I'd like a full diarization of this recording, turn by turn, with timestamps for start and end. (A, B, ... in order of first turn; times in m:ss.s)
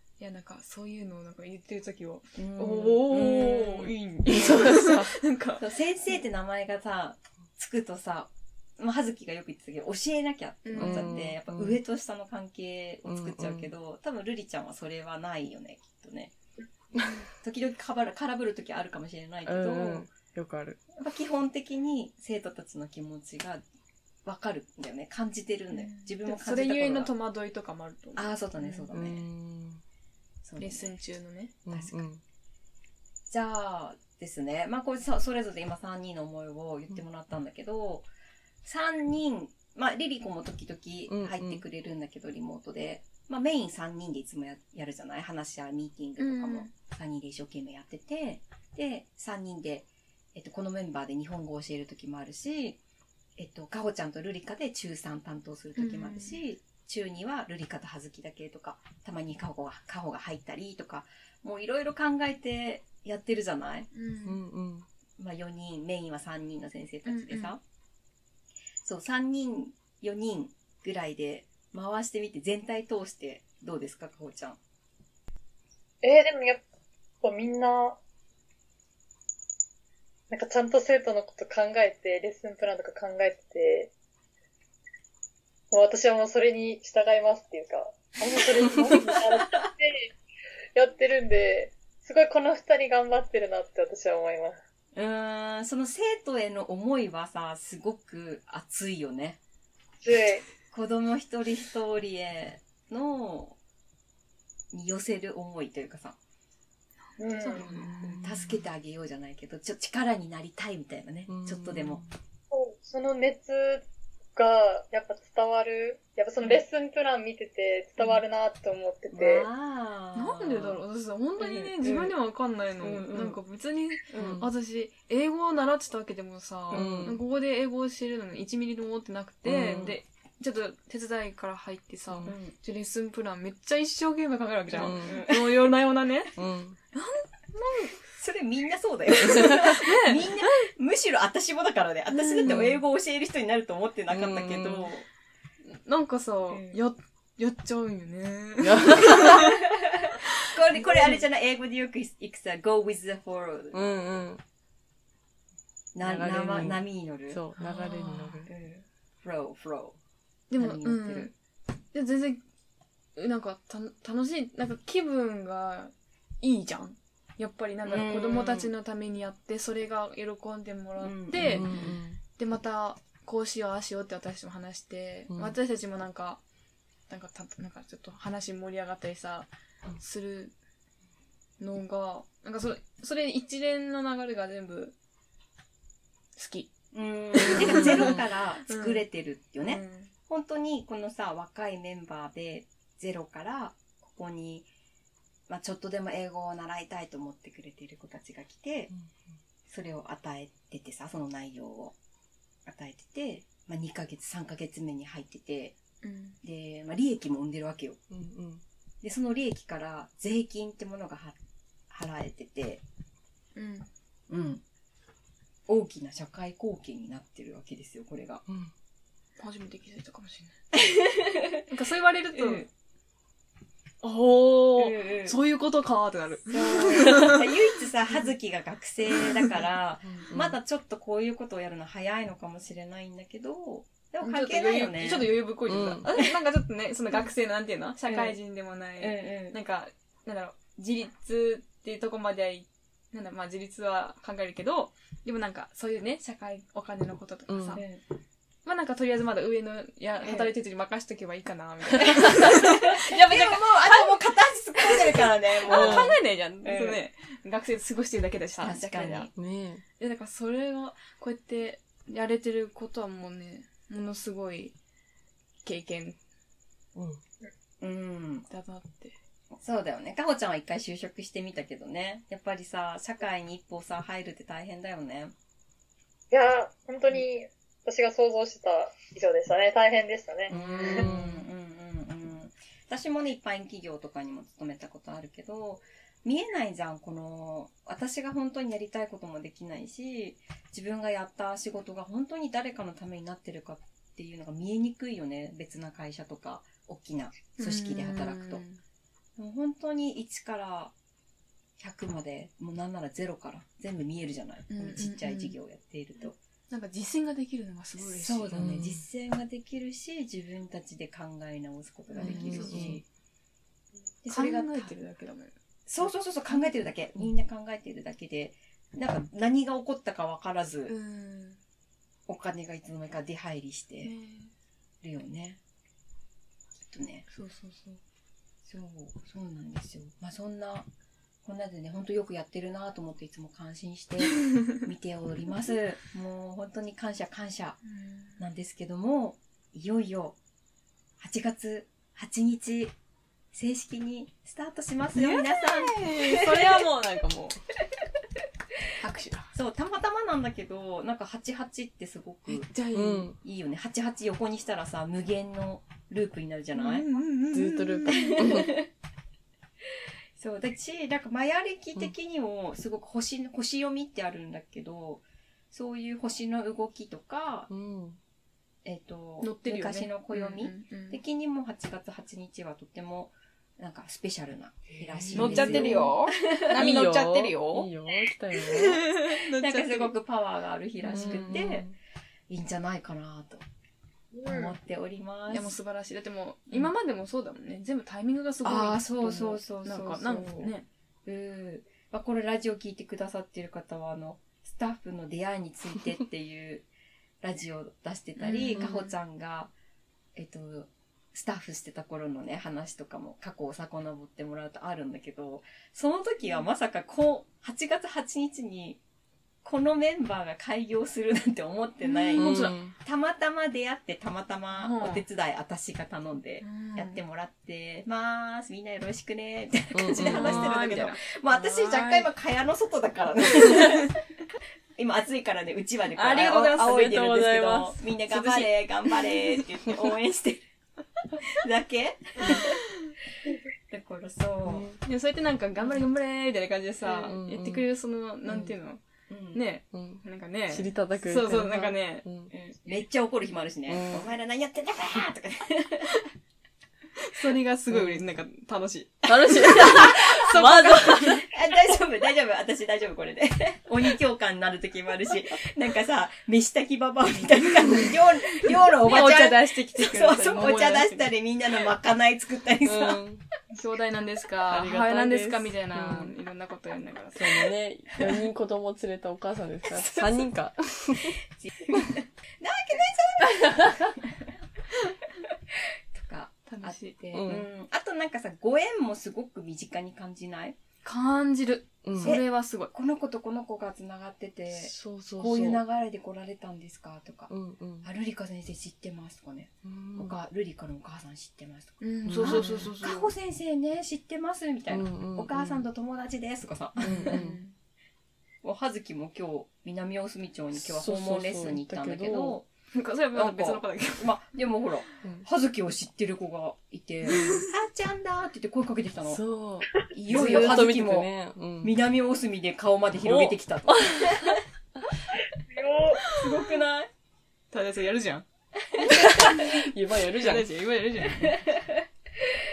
0:00.2-0:05.6 A
0:02.3-0:03.8 B
0:04.3-0:05.1 C
0:05.6-0:16.3 B
0:10.6-0:11.1 A
0:10.8-0:11.8 C
0:13.1-0:13.7 C
0:17.4-0:20.1 B
0:19.4-0:20.8 C
0:21.0-0:23.6 B
0:24.2-0:27.1 B
0:25.7-0:28.8 A
0:28.2-0:29.3 B
0:28.9-0:29.8 C
0:30.4-0:30.9 B
0:30.6-0:31.5 A
0:31.6-0:32.2 C
0:31.7-0:32.0 B
0:33.3-0:38.0 B
0:38.6-0:52.8 B
0:41.1-0:41.6 C
0:46.2-0:46.7 A
0:53.4-1:03.9 B
0:55.8-0:56.4 A
1:03.9-1:04.4 A
1:04.2-1:04.9 C
1:05.2-1:07.6 B
1:07.0-1:07.5 A
1:08.8-1:14.6 B
1:16.0-1:16.6 D
1:17.2-1:18.0 D
1:20.3-1:23.9 D
1:25.7-1:30.1 D
1:28.8-1:29.2 B
1:30.7-1:34.6 D
1:34.9-1:39.4 B
1:40.0-1:40.4 D
1:40.7-1:43.6 B
1:44.7-1:46.2 B
1:47.1-1:48.3 A
1:47.2-1:47.6 D
1:47.6-1:52.0 B
1:47.7-1:48.6 C
1:51.3-1:52.1 C
1:52.5-1:53.8 D
1:54.3-1:59.5 D
1:59.1-2:00.8 B
2:00.1-2:16.3 A
2:01.4-2:02.1 B
2:02.8-2:03.4 B
2:04.1-2:04.5 B
2:06.7-2:07.2 B
2:06.7-2:07.2 C
2:09.4-2:09.9 C
2:09.6-2:10.0 B
2:12.1-2:12.4 C
2:12.2-2:12.5 B
2:14.7-2:15.6 B
2:14.8-2:15.2 C
2:16.4-2:16.8 C
2:16.9-2:17.9 A
2:18.2-2:25.0 B
2:19.2-2:20.7 A
2:22.1-2:22.8 A
2:24.1-2:24.9 C
2:25.6-2:29.5 A
2:26.5-2:26.8 B
2:28.6-2:29.4 C
2:30.0-2:34.0 B
2:30.8-2:31.2 A
2:33.7-2:34.4 C
2:35.9-2:37.4 B
2:36.0-2:38.5 C
2:37.6-2:38.5 A
2:38.5-2:40.0 B
2:40.5-2:41.3 A
2:40.6-2:41.3 B
2:41.9-2:42.4 A
2:43.2-2:51.7 A
2:47.8-2:48.7 B
2:51.0-2:52.0 B
2:51.4-2:52.2 C
2:52.4-2:56.4 A
2:55.3-2:55.5 C
2:57.1-3:00.5 A
3:01.6-3:04.9 A
3:06.4-3:06.7 A
3:06.9-3:14.7 B
3:07.4-3:09.0 A
3:09.6-3:10.1 A
3:15.5-3:18.9 B
3:19.7-3:21.9 B
3:22.6-3:25.7 B
3:26.0-3:26.4 A
3:26.4-3:28.0 B
3:28.1-3:28.6 C
3:29.0-3:31.3 B
3:31.9-3:32.8 B
3:33.6-3:33.9 A
3:34.3-3:34.6 B
3:35.7-3:38.4 B
3:38.5-3:38.7 C
3:39.4-3:40.6 A
3:40.8-3:41.6 B
3:41.7-3:42.6 A
3:42.3-3:42.7 B
3:44.0-3:47.5 A
3:44.8-3:45.4 B
3:46.5-3:55.3 B
3:50.0-3:50.6 C
3:54.2-4:07.8 A
3:55.7-3:56.1 C
3:58.1-3:58.4 B
3:59.0-3:59.6 B
4:07.5-4:07.8 C
4:07.8-4:08.0 B
4:08.6-4:14.3 A
4:10.2-4:10.5 B
4:12.1-4:17.0 B
4:14.8-4:19.3 A
4:15.7-4:16.1 C
4:18.6-4:19.3 B
4:19.3-4:19.8 C
4:20.0-4:24.7 A
4:25.6-4:26.2 A
4:26.9-4:27.2 C
4:27.8-4:28.4 B
4:28.5-4:29.2 A
4:29.6-4:35.3 B
4:36.3-4:41.1 D
4:40.5-4:41.4 C
4:40.5-4:58.6 B
4:57.6-4:58.8 A
4:59.4-5:00.9 B
5:01.8-5:06.4 B
5:04.7-5:05.5 A
5:06.7-5:08.7 A
5:08.0-5:13.0 B
5:08.5-5:09.0 C
5:12.1-5:13.0 A
5:12.2-5:13.0 C
5:14.2-5:14.9 B
5:14.3-5:15.5 A
5:15.9-5:20.9 B
5:20.9-5:21.6 A
5:22.3-5:24.1 B
5:24.0-5:24.5 A
5:25.0-5:25.6 B
5:26.9-5:27.2 B
5:27.3-5:28.0 A
5:28.6-5:30.9 B
5:31.4-5:37.8 B
5:37.8-5:38.4 A
5:38.4-5:40.4 B
5:41.2-5:42.9 B
5:43.5-5:46.8 B
5:45.1-5:47.6 A
5:49.0-5:49.5 A
5:49.5-5:52.7 B
5:52.5-5:53.3 A
5:52.9-5:53.4 C
5:53.4-5:57.0 B
5:56.8-5:58.7 A
5:57.5-5:58.7 C
5:58.1-5:58.9 B
6:00.4-6:07.7 B
6:07.7-6:08.2 C
6:08.8-6:16.9 B
6:09.4-6:11.2 A
6:14.9-6:16.1 C
6:15.3-6:17.9 A
6:16.7-6:19.0 C
6:18.6-6:20.1 A
6:19.6-6:21.9 B
6:21.0-6:21.6 A
6:21.1-6:21.9 C
6:22.5-6:23.6 B
6:24.3-6:24.7 D
6:24.4-6:25.7 B
6:25.5-6:30.8 A
6:28.6-6:30.7 B
6:31.2-6:36.8 B
6:37.4-6:39.7 B
6:38.4-6:38.9 A
6:38.7-6:39.1 C
6:40.4-6:49.0 B
6:49.6-7:04.2 B
6:52.0-6:52.8 A
6:52.3-6:52.9 C
6:54.7-6:55.2 A
6:56.6-6:57.2 A
6:59.9-7:00.9 C
7:00.2-7:02.3 A
7:03.7-7:04.1 A
7:05.0-7:10.6 B
7:06.1-7:09.5 A
7:07.2-7:07.8 C
7:11.5-7:12.8 B
7:12.4-7:13.1 A
7:13.9-7:14.9 B
7:14.6-7:15.0 C
7:15.0-7:19.0 A
7:17.0-7:17.3 B
7:17.2-7:17.8 C
7:18.4-7:18.7 B
7:19.3-7:19.6 B
7:19.5-7:22.2 A
7:19.9-7:22.5 C
7:22.5-7:26.1 B
7:23.9-7:24.3 C
7:27.2-7:31.5 A
7:27.9-7:28.2 C
7:29.3-7:31.4 C
7:31.5-7:43.2 B
7:37.4-7:38.1 A
7:38.6-7:41.3 A
7:42.8-7:43.4 C
7:43.7-7:47.7 A
7:44.7-7:46.3 C
7:47.4-7:51.4 C
7:51.6-7:54.4 B
7:56.1-8:00.8 B
7:56.7-7:57.2 A
7:57.3-7:57.6 C
8:01.0-8:02.9 A
8:02.0-8:02.4 C
8:02.2-8:07.5 B
8:04.7-8:05.8 C
8:07.5-8:08.1 C
8:08.0-8:17.6 B
8:09.8-8:10.4 C
8:12.0-8:13.3 A
8:12.2-8:12.8 C
8:14.9-8:15.8 C
8:17.0-8:17.7 A
8:17.0-8:17.5 C
8:18.6-8:22.6 B
8:20.7-8:22.6 C
8:22.9-8:24.3 A
8:23.3-8:29.4 B
8:27.3-8:27.7 A
8:29.3-8:31.9 C
8:30.1-8:31.3 B
8:30.3-8:30.8 A
8:31.8-8:34.6 B
8:33.2-8:34.4 C
8:35.7-8:36.2 D
8:36.3-8:37.1 B
8:36.3-8:36.7 A
8:37.7-8:38.4 A
8:39.1-8:39.8 A
8:39.1-8:40.7 C
8:40.3-8:41.6 A
8:41.3-8:42.0 B